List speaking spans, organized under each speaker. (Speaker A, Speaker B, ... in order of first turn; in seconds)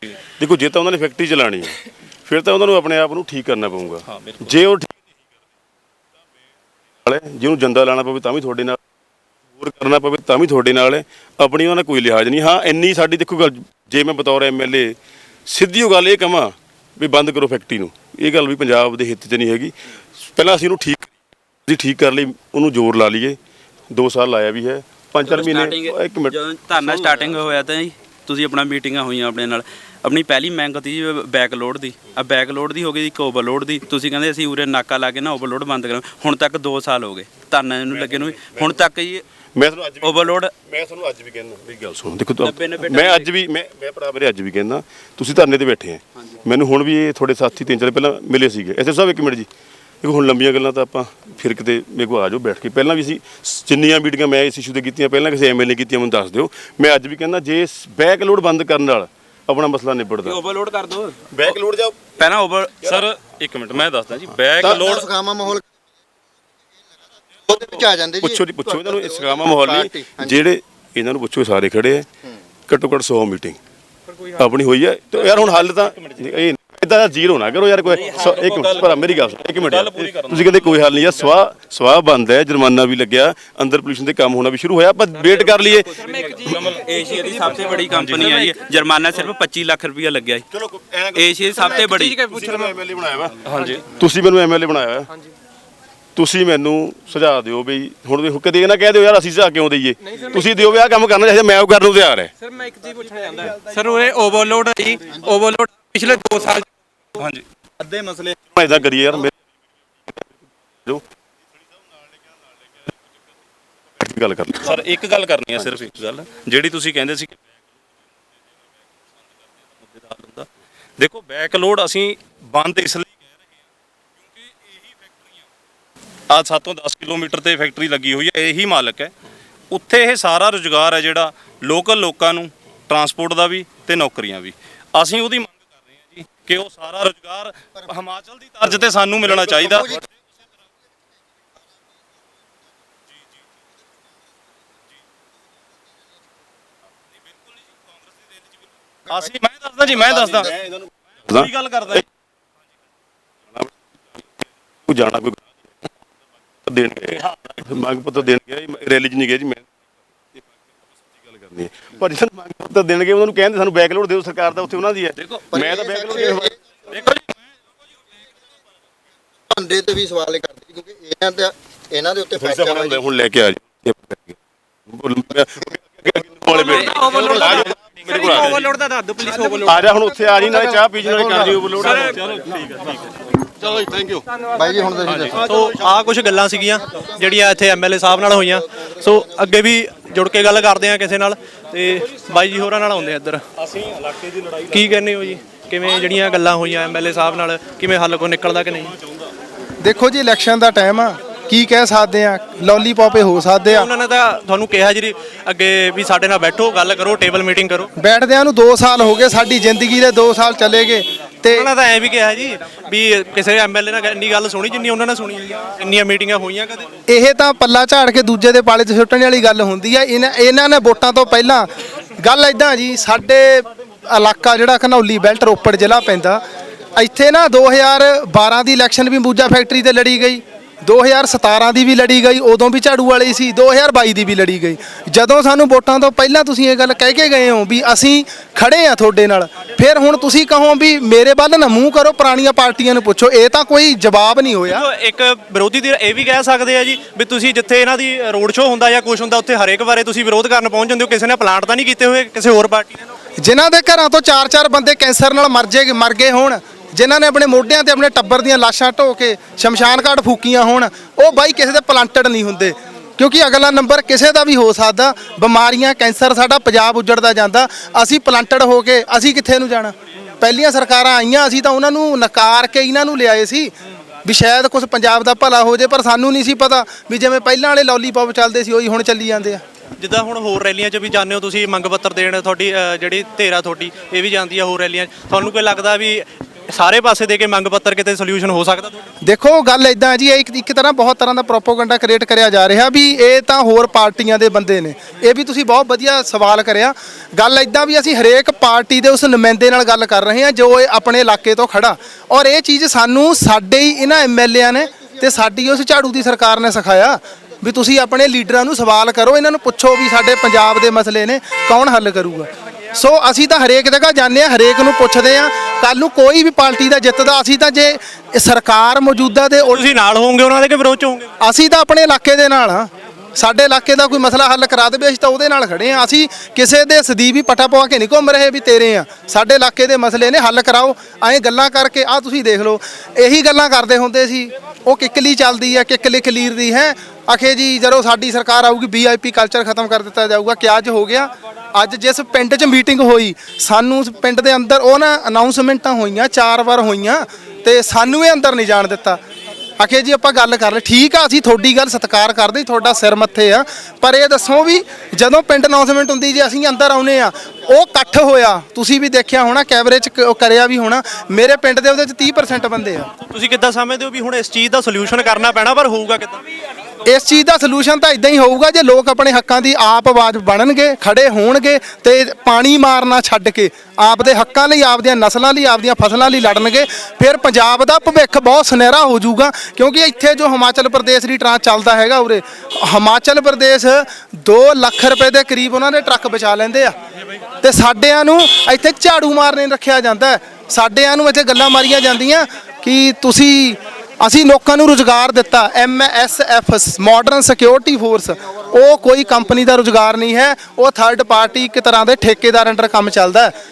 Speaker A: 0.4-5.3, 7.0-8.8, 9.6-21.1, 21.7-23.4, 23.9-27.5, 37.9-38.8, 39.5-49.5, 50.0-60.4, 61.3-62.1, 68.2-72.1, 72.7-73.6, 74.3-85.9, 90.5-95.1, 96.2-102.3, 108.5-109.3, 110.1-111.0, 114.0-114.7, 151.3-152.0, 154.9-155.7, 156.7-166.5, 172.4-178.6, 179.6-182.2
Speaker B: 4.1-4.5, 62.8-65.1, 75.1-76.3, 78.0-81.3, 86.1-87.3, 87.9-88.5, 93.4-93.8, 114.6-117.6, 119.2-123.6, 124.2-125.5, 126.3-129.1, 129.7-140.0, 147.5-148.0, 149.1-150.7, 151.3-152.1, 166.9-167.4, 177.1-177.6, 182.0-183.0, 183.7-184.2, 185.0-185.3, 193.6-195.0
Speaker C: 25.2-39.2, 40.0-40.5, 42.4-43.3, 60.2-61.5, 62.2-62.8, 85.2-85.9, 86.5-90.4, 91.2-92.2
Speaker D: 64.6-65.7, 67.4-70.4, 139.3-140.0, 165.5-167.1, 169.5-173.0, 184.5-185.4
Speaker E: 91.8-92.5, 100.1-100.4, 102.5-106.7, 176.8-179.8
Speaker F: 185.3-193.4, 194.7-198.9, 203.7-207.9, 211.5-216.9, 244.7-253.0, 280.0-289.0, 319.6-321.3, 363.2-366.4
Speaker G: 199.8-203.9, 208.0-211.7, 217.1-221.7, 222.2-226.4, 226.9-244.8, 253.4-273.7, 274.2-279.6, 289.2-319.8, 321.4-349.2, 349.8-363.1, 367.1-386.9, 387.6-403.5